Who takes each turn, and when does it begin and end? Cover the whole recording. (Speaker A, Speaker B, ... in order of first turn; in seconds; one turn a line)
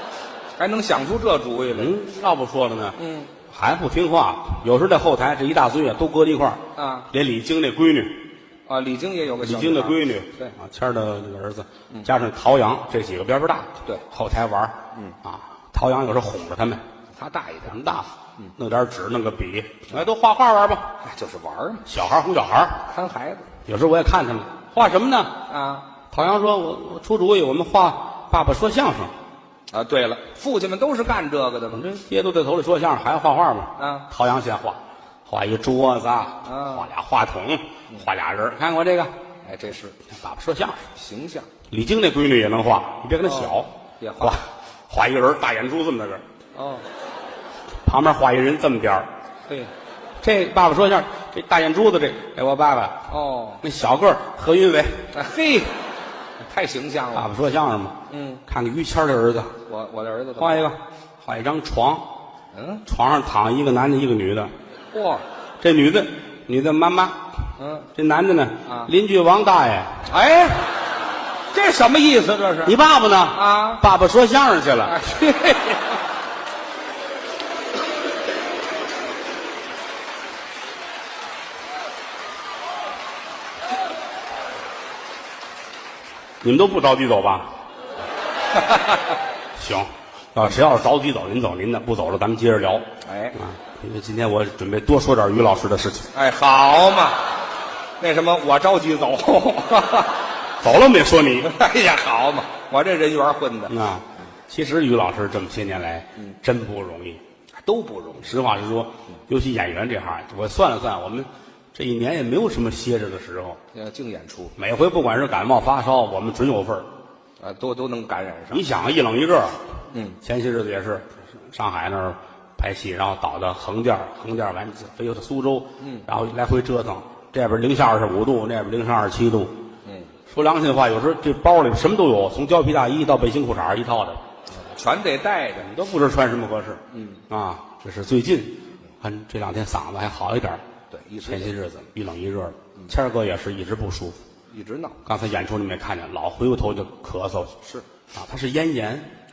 Speaker A: 0.6-1.9
Speaker B: 1.7-3.0
Speaker A: 3.0-3.3
Speaker B: 3.5-8.3
Speaker A: 6.7-7.1
Speaker A: 8.7-10.5
Speaker B: 9.4-16.8
Speaker A: 17.1-17.8
Speaker B: 17.6-20.9
Speaker A: 21.0-21.9
Speaker B: 21.9-22.9
Speaker A: 22.9-23.5
Speaker B: 23.6-25.4
Speaker A: 25.4-25.9
Speaker B: 26.1-29.1
Speaker A: 29.7-31.9
Speaker B: 31.7-39.1
Speaker A: 33.8-34.1
Speaker A: 36.4-36.9
Speaker A: 39.4-40.0
Speaker B: 40.0-40.9
Speaker A: 40.9-41.5
Speaker B: 41.7-46.2
Speaker A: 43.2-44.4
Speaker A: 46.5-46.9
Speaker B: 47.8-49.1
Speaker A: 49.5-49.7
Speaker B: 50.2-55.1
Speaker A: 53.1-53.6
Speaker A: 55.1-55.8
Speaker A: 56.4-57.3
Speaker B: 57.1-59.6
Speaker A: 58.1-58.4
Speaker A: 59.6-60.7
Speaker B: 60.4-62.1
Speaker A: 62.5-62.8
Speaker B: 62.9-64.5
Speaker A: 64.9-65.2
Speaker B: 65.6-67.3
Speaker A: 67.6-67.9
Speaker B: 67.9-70.1
Speaker A: 68.6-68.9
Speaker A: 70.1-70.7
Speaker A: 71.5-72.8
Speaker B: 72.6-75.0
Speaker A: 73.3-73.8
Speaker A: 74.8-76.0
Speaker B: 86.4-87.5
Speaker A: 88.5-89.2
Speaker B: 89.5-96.1
Speaker A: 93.0-93.4
Speaker A: 96.1-97.3
Speaker A: 98.0-100.3
Speaker B: 100.6-101.5
Speaker A: 101.4-103.7
Speaker B: 103.7-107.2
Speaker A: 107.6-108.3
Speaker B: 108.2-113.6
Speaker A: 113.7-114.5
Speaker B: 114.6-116.9
Speaker A: 117.4-118.6
Speaker B: 118.5-119.6
Speaker A: 119.9-120.2
Speaker B: 120.2-129.6
Speaker A: 125.8-126.1
Speaker A: 129.8-130.1
Speaker B: 130.3-134.2
Speaker A: 134.5-135.7
Speaker B: 135.6-140.6
Speaker A: 136.9-137.2
Speaker A: 140.9-141.5
Speaker B: 141.2-144.2
Speaker A: 144.5-145.0
Speaker B: 145.0-147.6
Speaker B: 148.1-149.1